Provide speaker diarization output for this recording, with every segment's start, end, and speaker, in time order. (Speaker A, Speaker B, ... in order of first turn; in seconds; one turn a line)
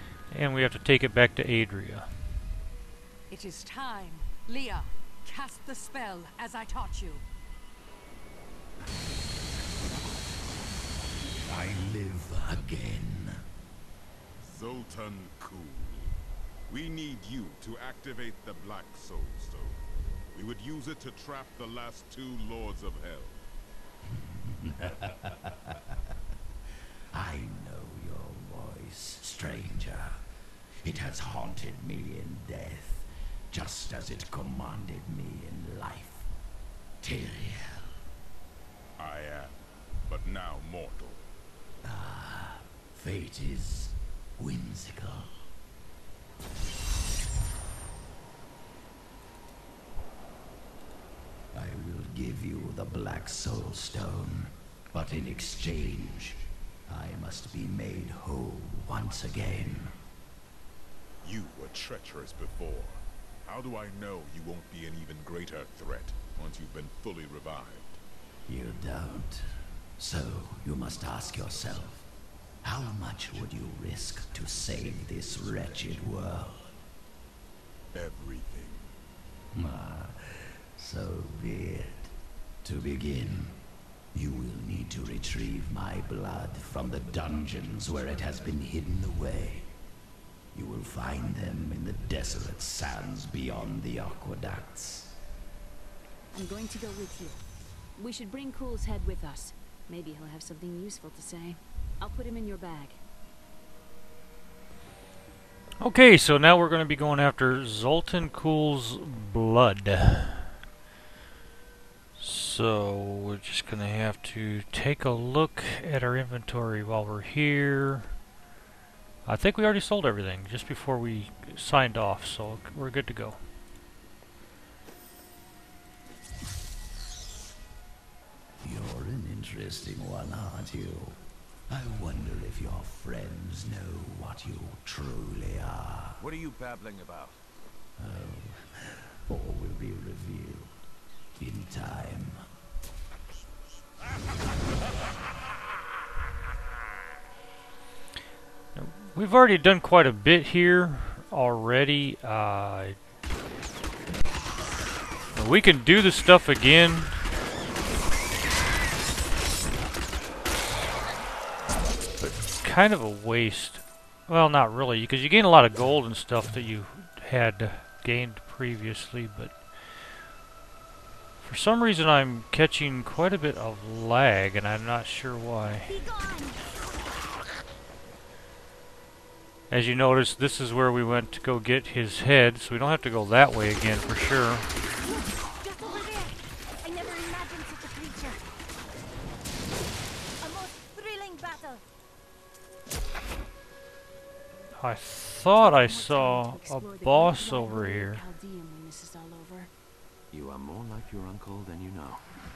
Speaker A: 0.3-2.1
Speaker B: 3.3-7.2
Speaker C: 11.5-13.4
Speaker D: 14.4-16.2
Speaker D: 16.7-19.8
Speaker D: 20.3-23.4
Speaker C: 24.1-25.7
Speaker C: 27.1-30.2
Speaker C: 30.8-36.3
Speaker C: 37.0-37.9
Speaker D: 39.0-41.3
Speaker C: 41.8-45.3
Speaker C: 51.5-60.0
Speaker D: 61.2-68.0
Speaker C: 68.5-69.5
Speaker C: 70.0-72.1
Speaker C: 72.6-76.7
Speaker D: 77.9-78.9
Speaker C: 79.5-82.1
Speaker C: 82.6-83.6
Speaker C: 84.1-89.7
Speaker C: 90.5-95.2
Speaker E: 96.3-97.4
Speaker E: 97.9-103.0
Speaker A: 105.8-110.5
Speaker A: 112.2-118.1
Speaker A: 119.2-123.4
Speaker C: 128.6-136.2
Speaker F: 136.2-137.4
Speaker C: 138.0-140.7
Speaker C: 141.4-142.4
Speaker A: 148.8-153.0
Speaker A: 155.3-157.1
Speaker A: 162.2-169.6
Speaker A: 171.4-175.9
Speaker G: 175.9-176.6
Speaker A: 179.7-184.7
Speaker G: 185.0-188.4
Speaker G: 190.4-191.8
Speaker A: 194.8-198.2
Speaker E: 195.6-199.7
Speaker F: 200.3-202.3